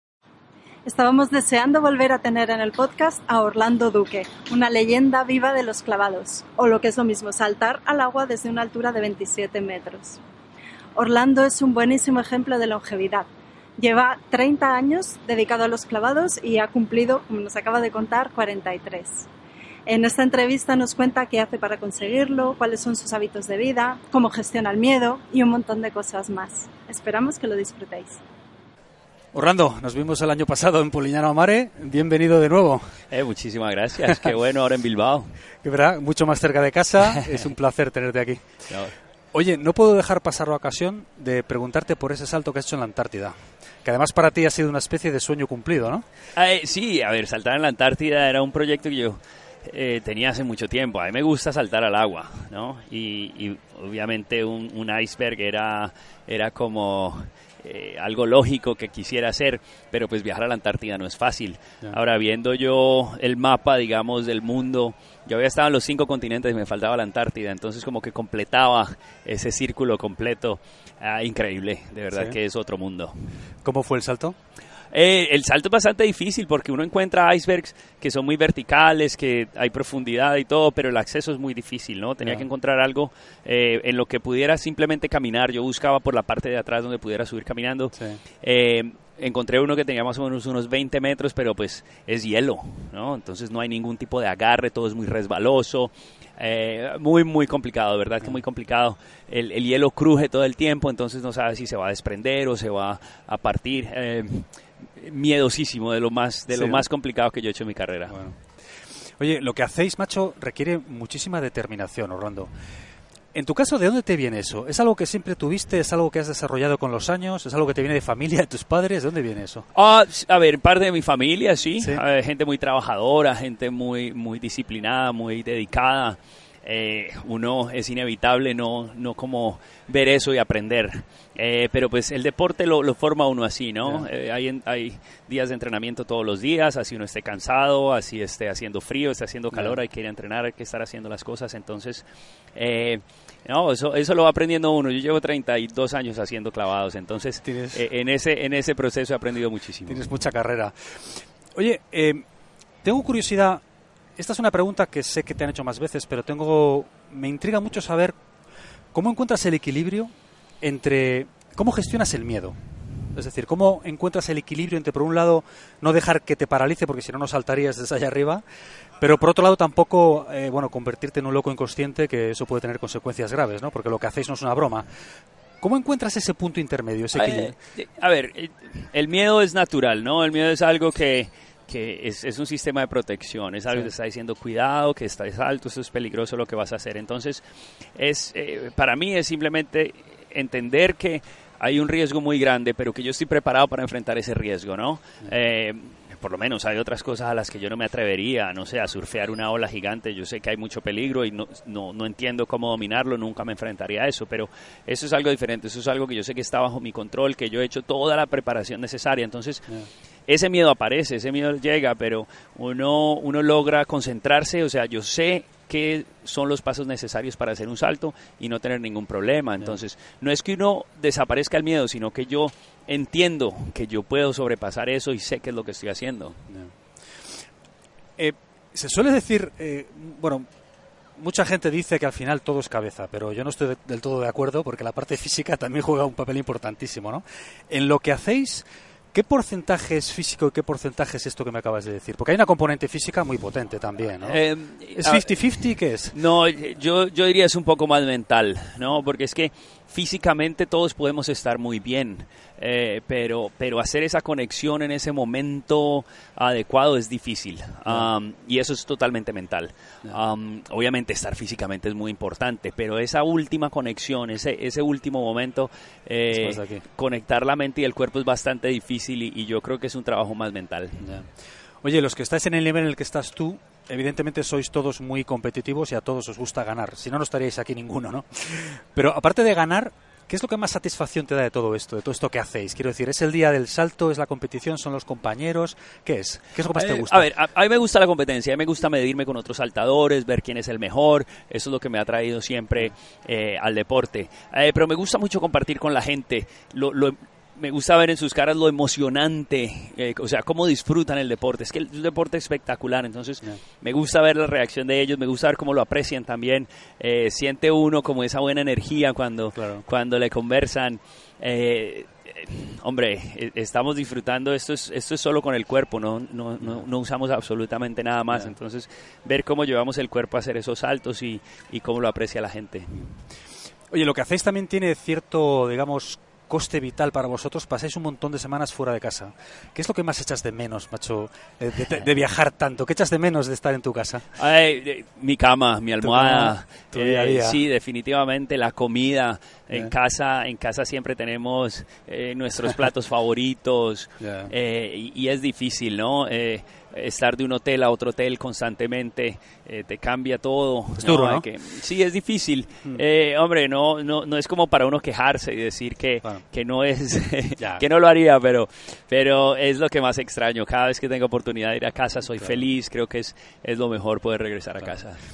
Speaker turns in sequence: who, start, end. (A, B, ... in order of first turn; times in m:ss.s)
0:00.8-0:10.2 A
0:11.0-0:13.3 A
0:13.8-0:19.3 A
0:19.9-0:28.2 A
0:29.3-0:33.0 B
0:33.1-0:35.4 C
0:35.6-0:38.5 B
0:38.7-0:38.9 C
0:39.3-0:46.0 B
0:46.4-1:13.1 C
1:12.1-1:12.4 B
1:13.6-1:14.3 B
1:14.9-1:48.2 C
1:28.0-1:28.2 B
1:46.5-1:46.8 B
1:48.1-1:48.4 B
1:49.2-1:52.5 B
1:53.3-1:59.6 B
1:59.7-2:30.0 C
2:13.8-2:14.1 B
2:19.5-2:19.8 B
2:27.4-2:27.8 B
2:29.9-2:32.2 B
2:32.8-2:33.6 B
2:34.2-2:38.2 B
2:38.9-2:42.5 B
2:43.1-2:48.4 B
2:49.0-2:54.8 B
2:55.6-2:57.5 B
2:57.1-3:07.4 C
3:07.9-3:29.6 C
3:30.3-3:46.4 C
3:48.2-3:50.4 B
3:51.2-4:04.4 B
4:04.2-4:05.3 C
4:04.9-4:06.2 B
4:06.1-4:31.1 C
4:26.3-4:26.8 B
4:31.0-4:31.3 B
4:31.8-4:47.3 B
4:46.7-5:23.1 C
5:09.6-5:09.8 B
5:23.9-5:34.2 B
5:34.4-6:05.2 C
5:36.0-5:37.6 B
5:44.2-5:44.5 B
5:51.0-5:51.5 B
5:57.6-5:57.8 B